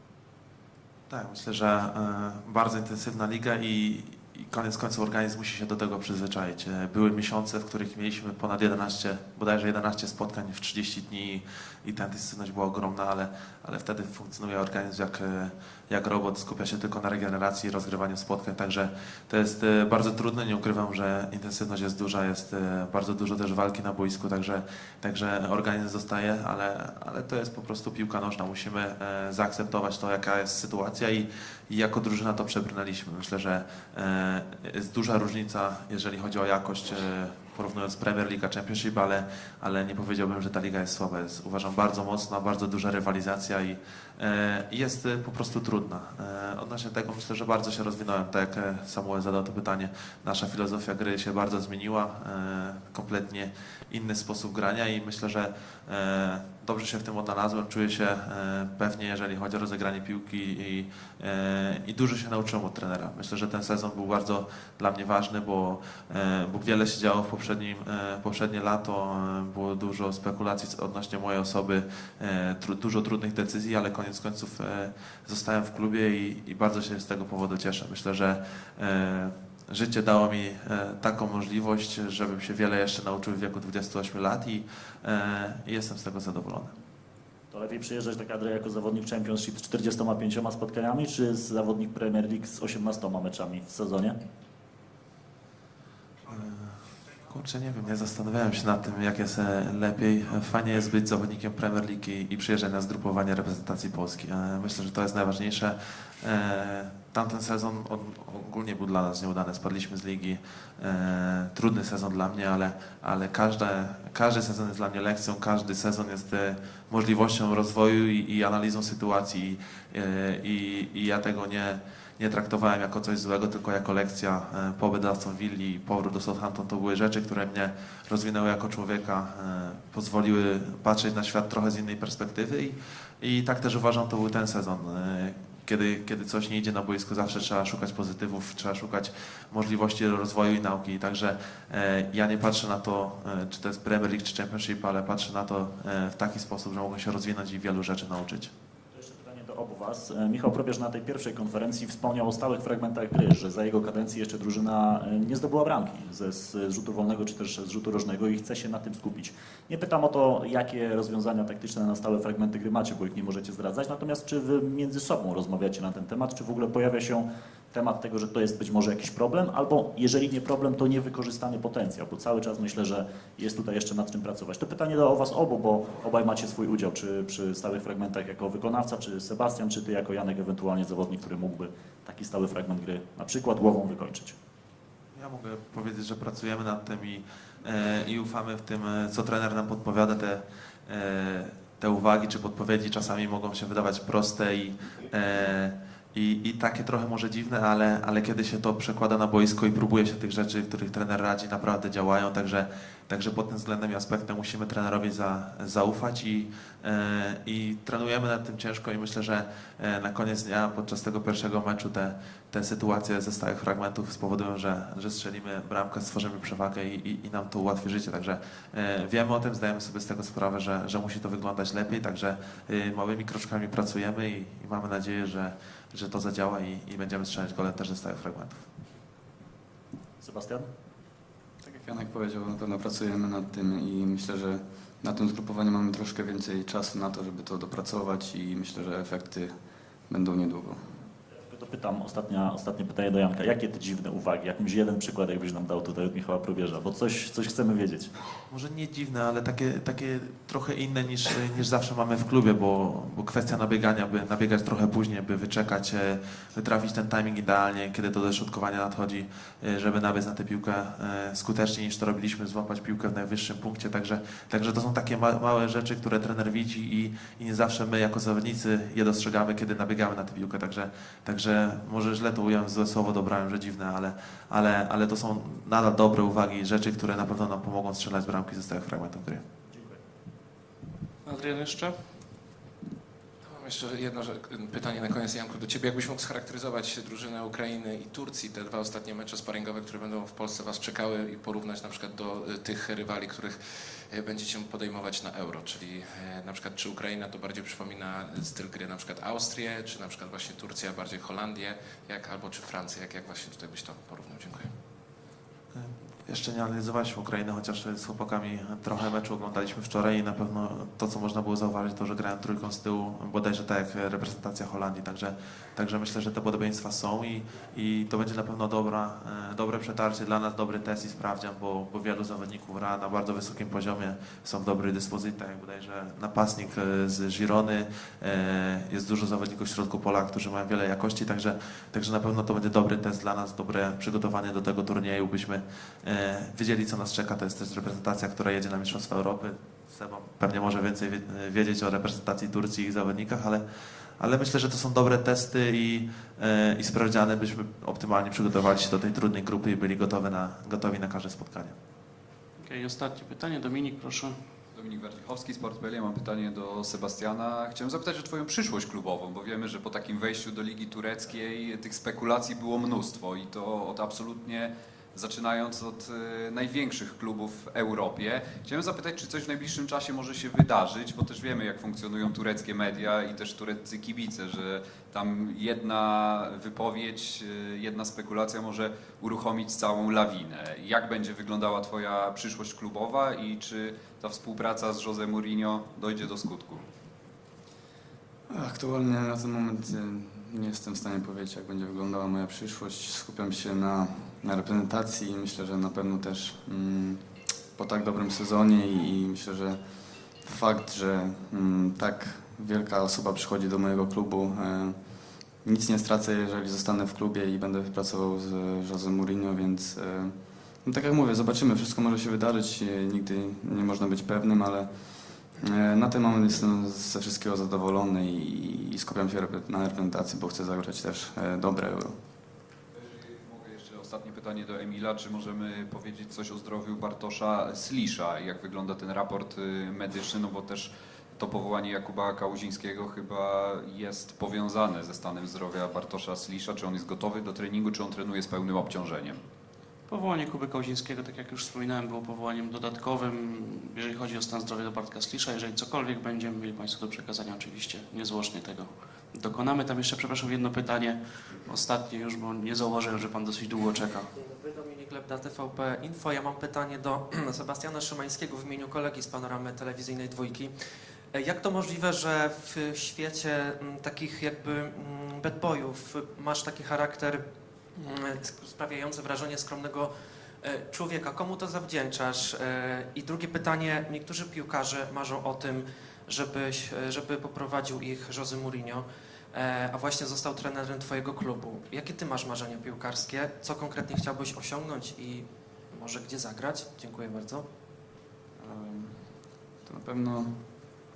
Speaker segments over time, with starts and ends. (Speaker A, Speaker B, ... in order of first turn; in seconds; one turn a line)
Speaker A: 1.1-86.7
Speaker B: 87.5-94.2
Speaker A: 96.3-148.5
Speaker B: 148.9-184.4
Speaker A: 185.2-228.7
Speaker B: 230.2-230.7
Speaker C: 231.6-239.6
Speaker C: 240.1-241.0
Speaker B: 241.4-248.1
Speaker A: 248.5-279.4
Speaker B: 279.7-280.0
Speaker D: 281.2-282.2
Speaker E: 283.5-304.8
Speaker A: 305.7-343.6
Speaker A: 344.2-351.8
Speaker D: 352.6-354.4
Speaker F: 354.7-386.9
Speaker C: 388.5-422.2
Speaker F: 422.9-439.4
Speaker D: 440.1-454.3
Speaker G: 454.4-460.7
Speaker G: 461.3-467.4
Speaker G: 467.9-487.6
Speaker C: 488.6-490.7